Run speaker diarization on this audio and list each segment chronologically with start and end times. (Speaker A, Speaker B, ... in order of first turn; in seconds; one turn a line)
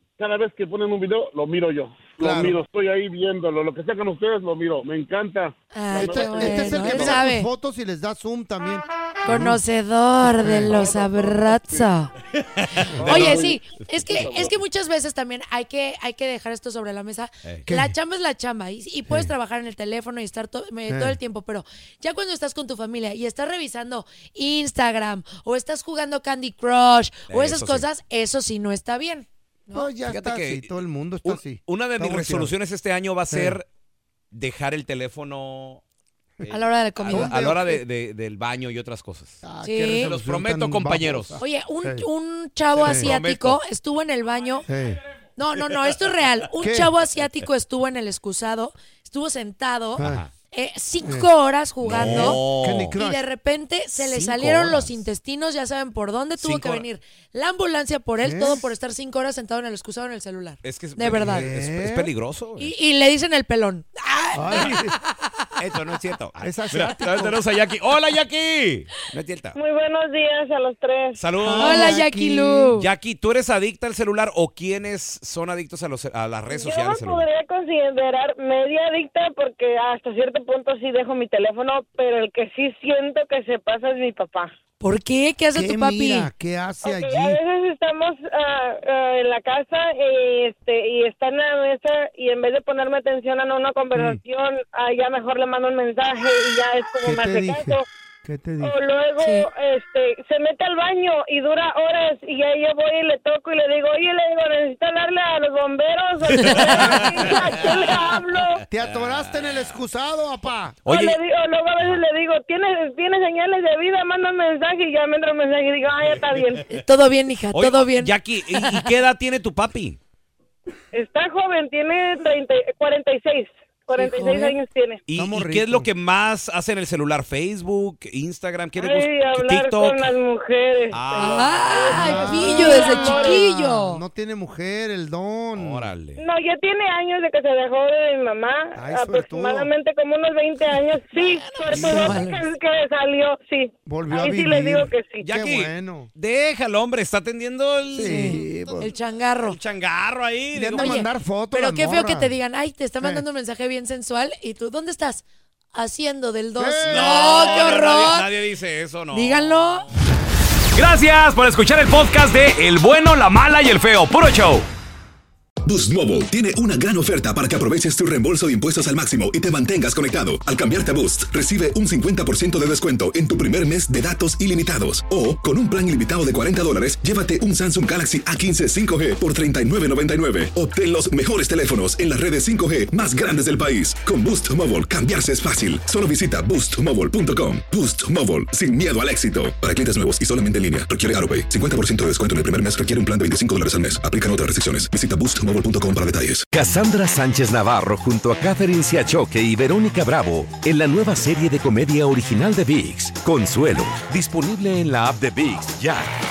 Speaker A: 0.2-7.2
Speaker B: 2.2-2.6
Speaker C: 5.7-7.5
Speaker B: 5.9-9.6
Speaker C: 9.2-12.1
Speaker B: 10.4-10.7
Speaker A: 10.7-11.8
Speaker D: 12.4-13.5
Speaker B: 12.9-13.2
Speaker A: 13.0-13.6
Speaker C: 13.0-29.9
Speaker A: 14.2-14.4
Speaker B: 17.6-17.9
Speaker B: 20.9-21.2
Speaker D: 27.3-27.8
Speaker B: 29.7-32.5
Speaker D: 30.1-33.6
Speaker B: 33.3-33.6
Speaker D: 34.3-35.8
Speaker D: 36.4-39.4
Speaker C: 36.5-37.5
Speaker B: 37.1-37.8
Speaker B: 39.4-42.0
Speaker C: 39.6-40.1
Speaker D: 40.0-41.4
Speaker C: 41.4-44.7
Speaker D: 42.8-43.6
Speaker B: 42.8-43.1
Speaker B: 44.7-45.0
Speaker C: 45.4-52.4
Speaker B: 46.6-46.9
Speaker B: 50.0-50.2
Speaker D: 50.0-50.3
Speaker B: 51.0-51.3
Speaker D: 51.8-53.0
Speaker B: 51.9-53.2
Speaker C: 53.0-61.5
Speaker D: 54.0-54.9
Speaker D: 56.4-56.8
Speaker B: 58.2-58.7
Speaker D: 60.6-62.7
Speaker B: 61.1-62.1
Speaker C: 62.6-65.1
Speaker B: 64.3-64.9
Speaker D: 65.6-69.6
Speaker B: 66.4-67.4
Speaker E: 69.5-71.2
Speaker D: 71.2-72.0
Speaker B: 71.4-72.7
Speaker C: 71.6-72.9
Speaker D: 72.8-77.2
Speaker E: 76.5-84.5
Speaker C: 84.8-86.3
Speaker B: 85.5-87.4
Speaker E: 86.8-97.8
Speaker B: 93.9-94.2
Speaker B: 97.0-98.7
Speaker E: 98.6-108.6
Speaker C: 99.2-99.5
Speaker D: 106.2-109.6
Speaker C: 106.3-107.0
Speaker B: 108.7-110.8
Speaker D: 110.8-111.2
Speaker E: 110.9-116.7
Speaker C: 116.7-118.9
Speaker D: 117.5-120.0
Speaker E: 120.9-125.0
Speaker C: 123.9-124.5
Speaker D: 125.1-130.1
Speaker B: 125.1-125.9
Speaker E: 128.8-131.2
Speaker D: 130.9-132.8
Speaker C: 131.1-134.0
Speaker E: 131.7-133.4
Speaker B: 131.9-135.9
Speaker D: 135.5-136.2
Speaker E: 136.2-145.2
Speaker B: 138.7-139.7
Speaker C: 141.5-142.4
Speaker B: 141.7-142.2
Speaker B: 143.8-146.1
Speaker D: 145.2-148.9
Speaker B: 147.9-148.9
Speaker C: 148.0-149.6
Speaker D: 149.4-151.0
Speaker B: 150.5-152.3
Speaker C: 150.8-158.3
Speaker B: 156.6-157.7
Speaker D: 156.8-159.4
Speaker C: 159.1-159.8
Speaker D: 160.7-164.7
Speaker F: 165.6-196.5
Speaker G: 196.5-206.1